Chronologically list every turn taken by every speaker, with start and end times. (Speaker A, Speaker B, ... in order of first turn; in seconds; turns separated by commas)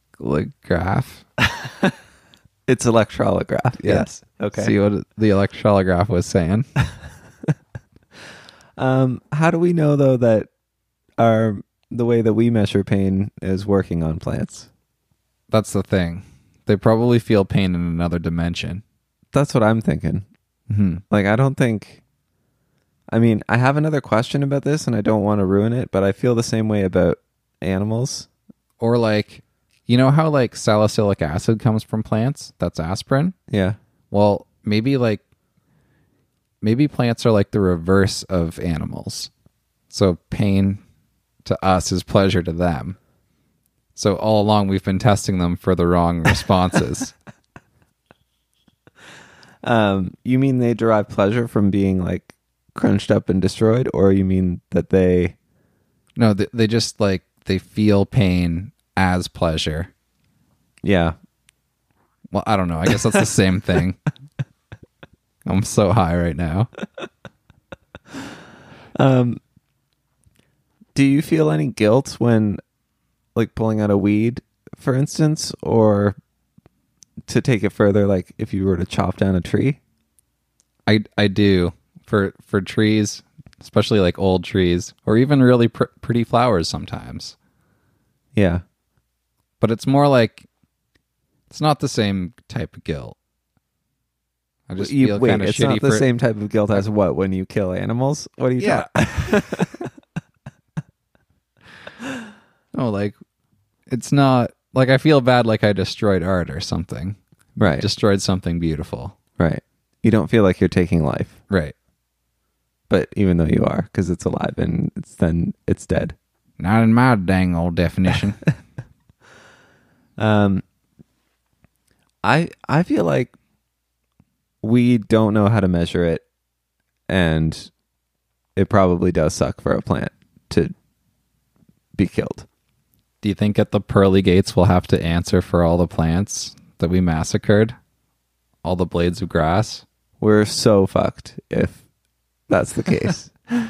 Speaker A: 0.2-1.2, Speaker B: 2.7-4.7, Speaker A: 3.8-6.7, Speaker B: 8.8-10.5, Speaker B: 11.2-14.7, Speaker A: 15.5-18.8, Speaker B: 19.3-20.2, Speaker A: 20.7-21.0, Speaker B: 21.1-22.0, Speaker B: 23.1-28.3, Speaker A: 28.8-33.4, Speaker B: 33.5-33.8, Speaker A: 34.1-35.2, Speaker A: 36.6-39.3, Speaker A: 39.9-40.8, Speaker A: 41.4-43.0, Speaker A: 43.9-47.1, Speaker B: 49.6-55.4, Speaker A: 56.1-59.9, Speaker B: 60.8-61.1, Speaker A: 62.3-64.0, Speaker A: 65.4-66.7, Speaker B: 69.0-69.4, Speaker B: 70.9-72.6, Speaker B: 73.3-76.2, Speaker B: 77.3-79.8, Speaker A: 80.8-87.3, Speaker B: 88.3-88.6, Speaker A: 89.6-90.5, Speaker A: 91.5-93.2, Speaker A: 94.7-96.0, Speaker B: 94.8-99.9, Speaker A: 98.6-99.7, Speaker A: 102.7-103.2, Speaker A: 103.9-109.1, Speaker B: 107.6-107.9, Speaker B: 109.4-111.4, Speaker B: 112.9-116.2, Speaker A: 116.6-118.4, Speaker B: 120.2-120.6, Speaker B: 122.2-123.3, Speaker B: 124.6-126.2, Speaker B: 127.1-127.7, Speaker B: 128.6-130.7, Speaker B: 132.0-132.5, Speaker A: 133.2-137.8, Speaker A: 138.6-139.8, Speaker B: 140.2-141.8, Speaker B: 142.5-143.3